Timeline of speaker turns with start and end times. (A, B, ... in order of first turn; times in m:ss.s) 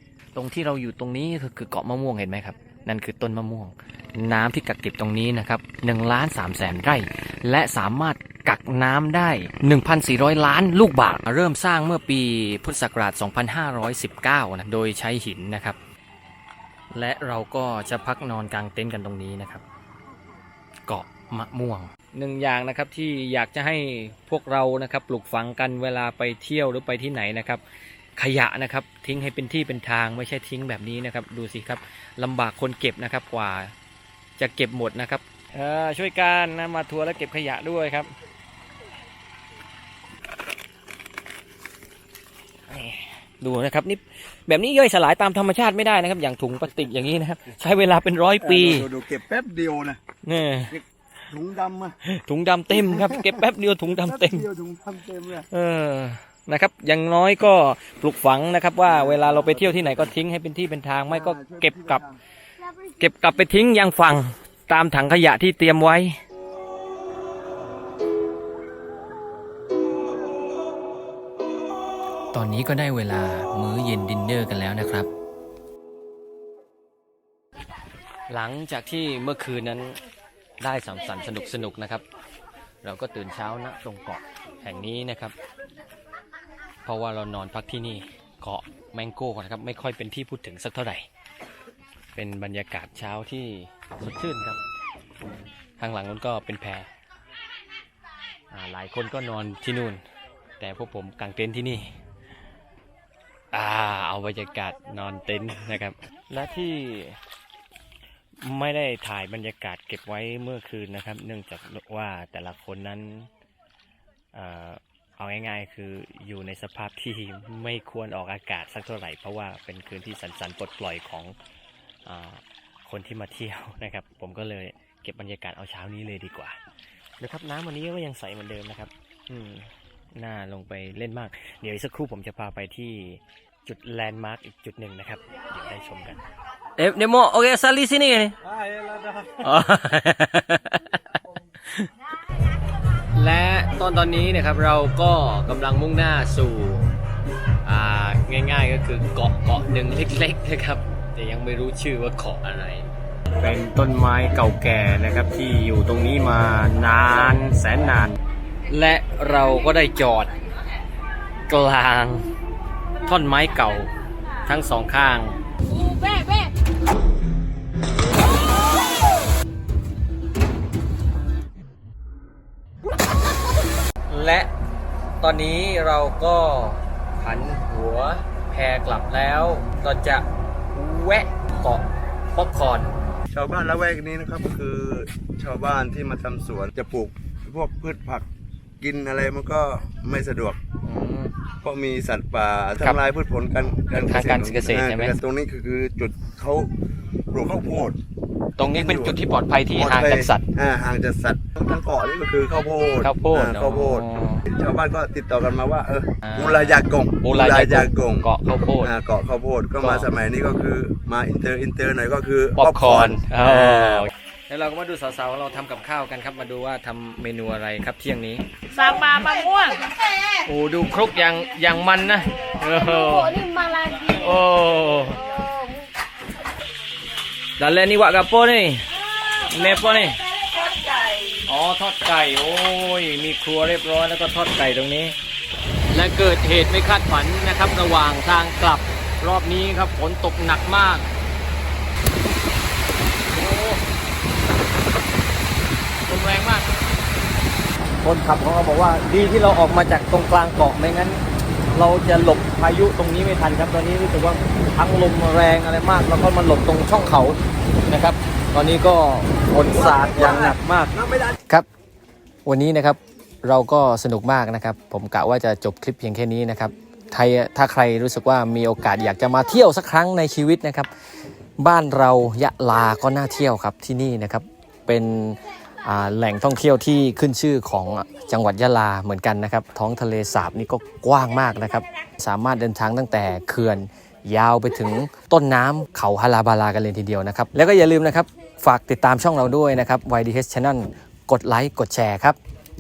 0:00.4-0:15.8 A
0:16.9-0:19.6 A
0:20.9-0:27.6 A
0:28.2-0:33.7 A
0:34.4-0:38.1 A
0:42.7-0:48.9 A
0:48.4-0:50.0 B
0:50.2-0:50.8 A
0:50.7-0:52.0 B
0:52.0-0:54.5 A
0:52.7-0:53.4 B
0:54.0-0:55.5 B
0:55.5-1:02.0 A
0:58.8-1:00.1 B
1:01.1-1:02.2 B
1:03.0-1:06.2 A
1:12.3-1:15.1 A
1:18.3-1:20.0 A
1:20.6-1:22.0 A
1:22.8-1:25.3 A
1:26.8-1:31.1 A
1:32.2-1:34.6 A
1:35.8-1:36.9 A
1:38.5-1:40.0 A
1:40.6-1:42.0 A
1:43.5-1:47.2 A
1:48.4-1:53.3 A
1:54.3-2:01.4 A
2:02.1-2:06.6 A
2:07.2-2:16.2 A
2:16.8-2:18.4 A
2:18.4-2:19.5 B
2:19.4-2:21.0 A
2:23.1-2:26.9 A
2:27.6-2:38.2 A
2:38.7-2:40.3 A
2:41.5-2:42.2 A
2:43.0-2:43.9 A
2:44.4-2:45.4 A
2:45.8-2:46.5 C
2:54.1-2:54.5 A
2:55.2-3:02.9 A
3:03.3-3:08.3 B
3:08.8-3:10.6 B
3:10.8-3:11.3 A
3:11.6-3:16.7 B
3:13.9-3:15.2 A
3:17.3-3:18.0 B
3:18.6-3:20.4 A
3:18.6-3:19.2 B
3:19.8-3:28.3 B
3:23.0-3:24.5 A
3:26.2-3:29.0 A
3:28.8-3:34.1 B
3:29.8-3:30.1 A
3:32.6-3:39.3 A
3:38.8-3:39.9 C
3:40.4-3:45.3 A
3:43.0-3:44.1 C
3:45.4-3:45.7 C
3:47.6-3:48.8 A
3:49.4-3:50.2 A
3:51.5-3:55.2 A
3:55.9-4:01.1 A
4:03.3-4:03.8 A
4:06.1-4:06.7 A
4:08.0-4:20.9 A
4:19.7-4:21.4 B
4:22.4-4:30.9 A
4:31.6-4:52.4 A